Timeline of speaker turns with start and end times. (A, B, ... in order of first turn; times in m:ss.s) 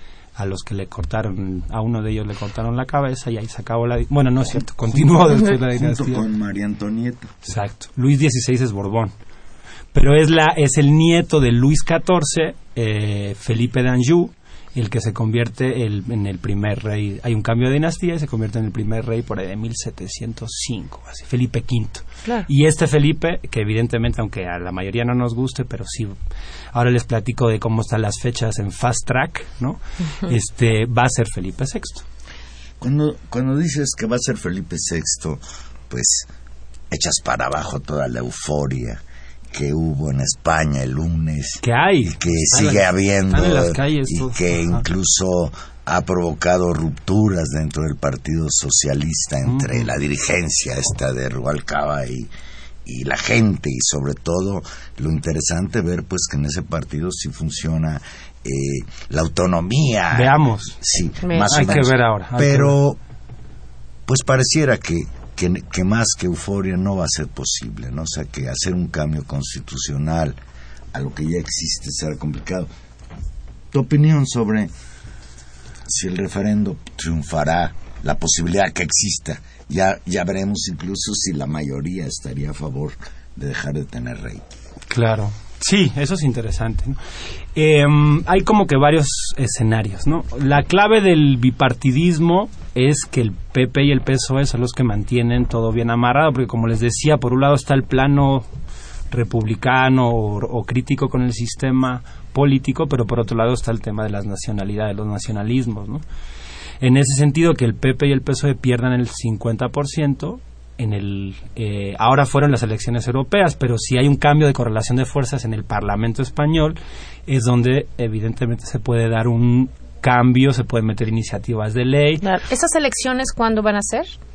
0:00.4-0:06.2 A
0:05.0-0:07.3 B
0:07.4-0:09.1 A
0:09.9-0:26.2 A
0:26.7-0:32.0 A
0:32.8-0:36.3 B
0:36.9-0:52.3 B
0:41.6-0:44.8 A
0:49.4-0:49.9 A
0:52.8-1:03.0 B
1:00.1-1:00.8 A
1:01.2-1:01.7 C
1:01.5-1:02.8 A
1:04.0-1:10.4 B
1:10.9-1:12.7 B
1:13.7-1:14.7 B
1:15.9-1:24.4 B
1:24.9-1:27.0 A
1:27.5-1:38.4 A
1:39.1-1:46.0 A
1:46.8-2:02.2 A
2:02.2-2:04.1 C